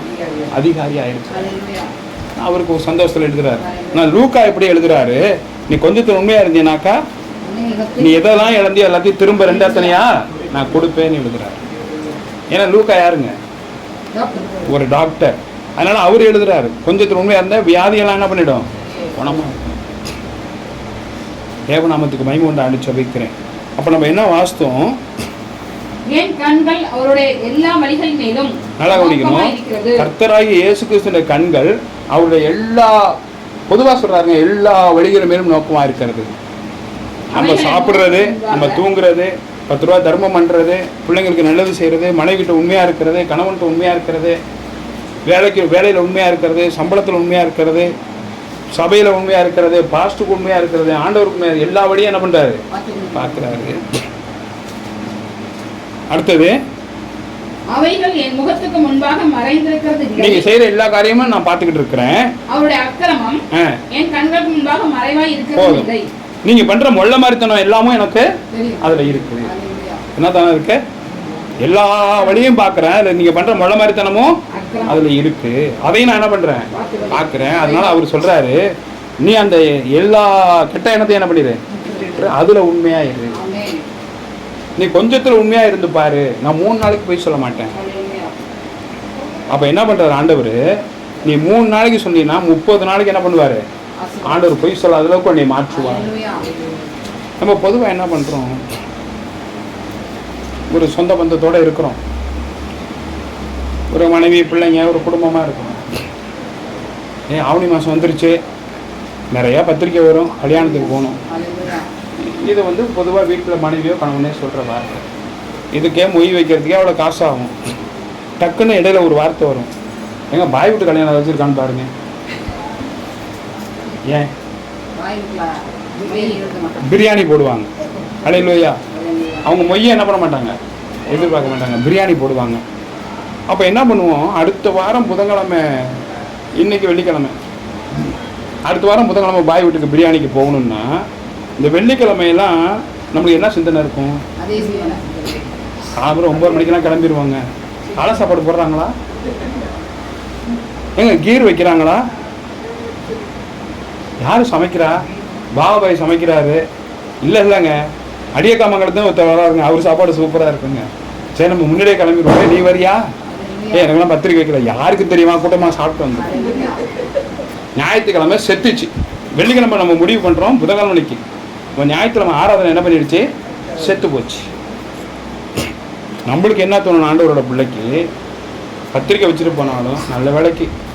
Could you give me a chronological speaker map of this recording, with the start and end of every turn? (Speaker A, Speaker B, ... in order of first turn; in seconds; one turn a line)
Speaker A: 0.1-0.4
Speaker B: 0.5-1.5
Speaker A: 1.3-1.9
Speaker B: 2.4-7.0
Speaker A: 3.6-4.2
Speaker A: 7.4-8.6
Speaker B: 8.0-11.6
Speaker A: 9.3-10.0
Speaker B: 12.5-13.3
Speaker A: 14.1-14.7
Speaker B: 14.6-19.8
Speaker B: 21.7-25.0
Speaker C: 26.1-30.1
Speaker B: 28.8-33.1
Speaker B: 33.7-36.3
Speaker C: 37.3-38.8
Speaker B: 37.3-44.4
Speaker B: 45.2-47.9
Speaker B: 48.7-52.6
Speaker A: 52.7-53.6
Speaker B: 53.1-53.8
Speaker B: 56.1-56.5
Speaker C: 57.7-60.5
Speaker B: 60.2-62.3
Speaker C: 62.5-66.0
Speaker B: 63.5-63.8
Speaker B: 65.5-65.9
Speaker B: 66.4-69.5
Speaker A: 68.5-70.0
Speaker B: 70.1-70.8
Speaker B: 71.6-78.6
Speaker C: 74.5-74.9
Speaker A: 76.7-78.0
Speaker B: 79.2-83.4
Speaker A: 81.7-82.3
Speaker A: 83.3-83.8
Speaker B: 84.8-87.7
Speaker A: 87.7-88.3
Speaker B: 89.5-90.6
Speaker B: 91.2-93.6
Speaker A: 94.0-94.5
Speaker B: 94.2-96.1
Speaker A: 95.7-96.5
Speaker B: 97.4-98.6
Speaker B: 100.7-102.0
Speaker B: 103.9-105.8
Speaker B: 107.3-108.4
Speaker B: 109.3-111.2
Speaker A: 110.5-111.9
Speaker B: 112.2-115.0
Speaker B: 115.7-117.5
Speaker B: 118.4-119.7
Speaker B: 120.3-121.9
Speaker B: 124.0-124.3
Speaker A: 124.9-126.9
Speaker B: 126.8-127.7
Speaker B: 128.2-128.8
Speaker A: 128.9-129.5
Speaker B: 129.4-132.6
Speaker B: 133.5-136.0
Speaker B: 136.6-137.3
Speaker B: 138.7-141.0
Speaker B: 141.6-144.2
Speaker A: 144.4-145.5
Speaker B: 145.9-148.9
Speaker B: 150.9-152.1
Speaker B: 154.2-156.6
Speaker B: 157.2-157.8
Speaker B: 158.3-163.0
Speaker A: 163.2-164.0
Speaker B: 163.7-166.3
Speaker A: 166.1-166.8
Speaker B: 167.8-171.2
Speaker B: 171.8-174.5
Speaker B: 176.2-178.1
Speaker B: 178.9-180.7